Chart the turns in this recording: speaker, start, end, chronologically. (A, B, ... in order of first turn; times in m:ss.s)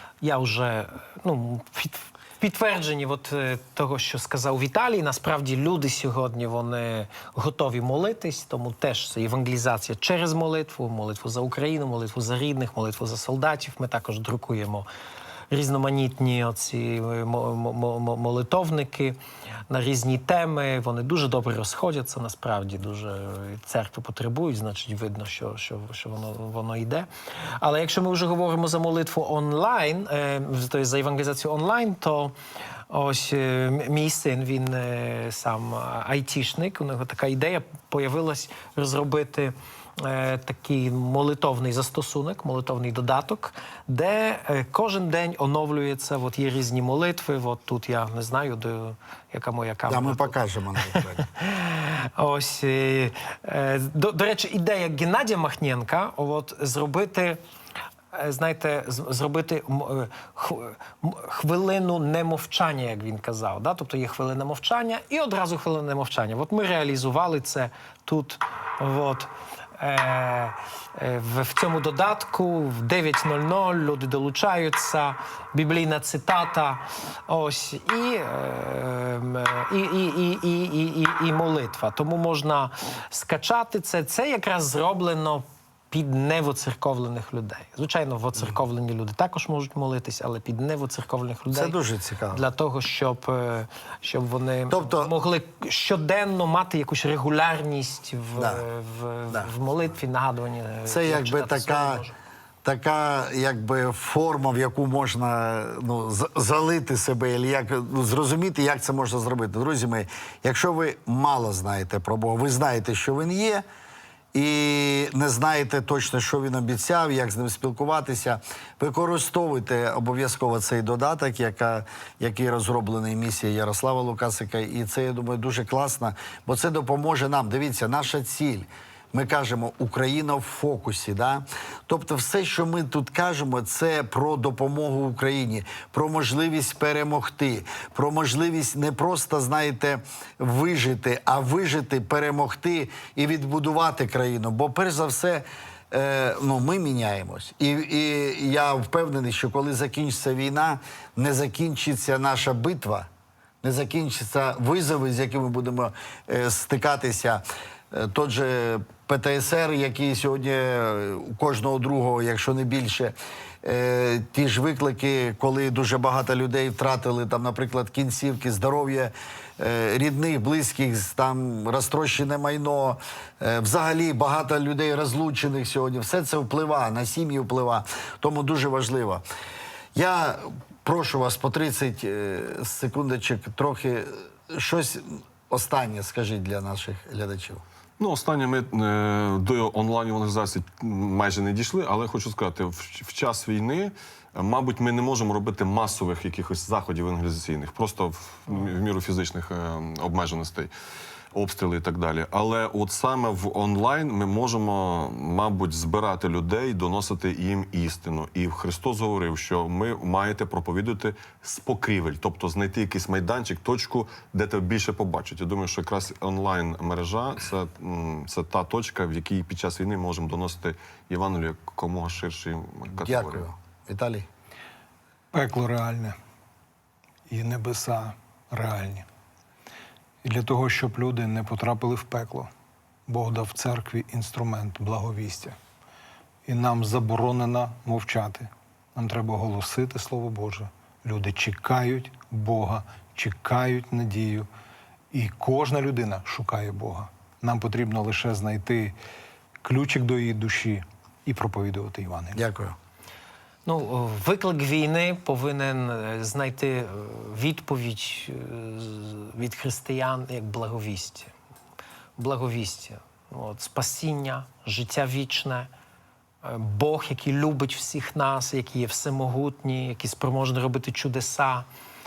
0:00.2-0:14.9 A
0:15.5-0:19.2 A
0:19.7-0:32.3 A
0:32.9-0:50.3 A
0:49.9-0:51.3 B
0:50.9-0:57.4 A
0:58.1-1:31.8 A
1:31.5-1:32.4 B
1:32.3-1:42.1 A
1:34.7-1:35.1 B
1:38.4-1:38.6 B
1:40.9-1:42.0 B
1:42.6-1:53.6 B
1:54.3-2:33.1 B
2:33.6-2:59.2 B
3:00.0-3:07.6 B
3:08.0-3:20.7 C
3:21.3-3:43.4 C
3:43.0-3:44.3 B
3:45.3-3:46.2 D
3:47.3-3:49.1 D
3:50.2-3:52.5 D
3:53.1-3:55.6 D
3:56.5-4:04.5 D
4:05.1-4:09.0 D
4:09.6-4:12.4 D
4:12.3-4:12.8 B
4:13.7-4:21.3 A
4:22.2-4:25.7 A
4:26.4-4:31.7 A